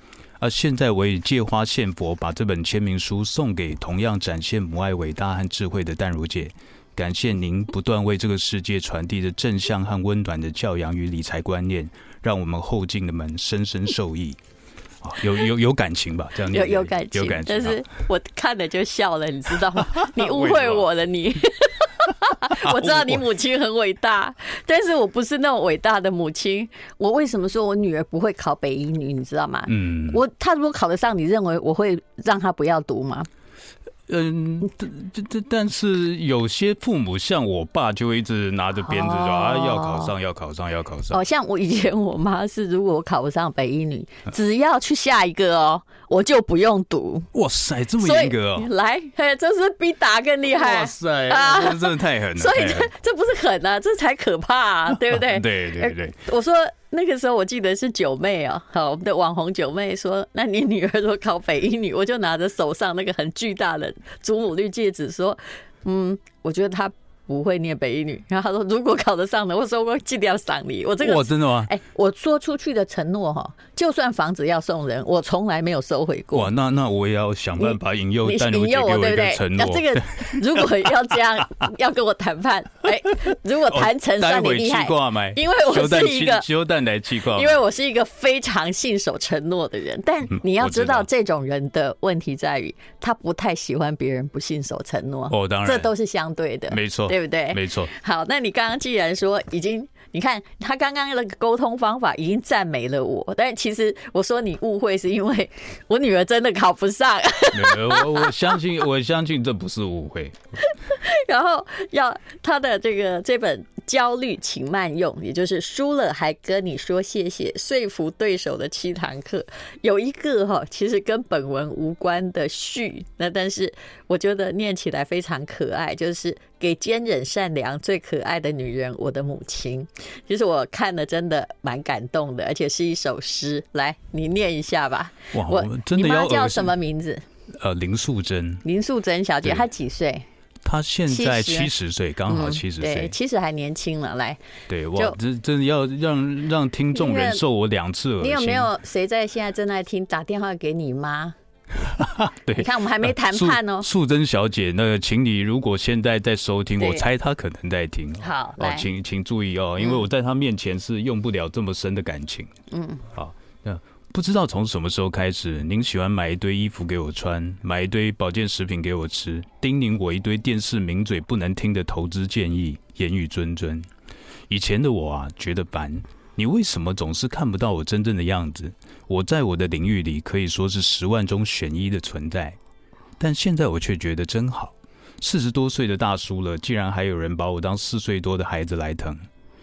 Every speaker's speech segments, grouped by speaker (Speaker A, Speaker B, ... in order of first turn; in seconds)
Speaker A: 0.4-14.4, 15.0-17.8, 19.8-20.9, 22.5-23.2, 29.7-30.2, 34.1-41.2, 47.3-48.7, 50.5-52.9, 55.0-56.2, 71.0-71.7, 76.3-81.2, 83.7-87.6, 90.3-91.1, 95.3-95.9, 96.7-97.9, 107.5-110.4, 135.3-136.7, 137.5-138.6, 140.6-143.2, 144.7-148.7, 151.7-162.5, 163.1-173.9, 174.5-182.6, 183.2-189.3
Speaker B: 16.5-33.3, 38.8-40.1, 41.1-47.3, 48.0-76.5, 77.6-86.5, 87.3-108.4, 110.8-137.2, 138.6-140.2, 141.1-141.7, 142.3-144.4, 146.9-147.4, 148.2-151.3, 152.5-153.9, 156.8-157.1, 158.2-158.9, 162.7-163.0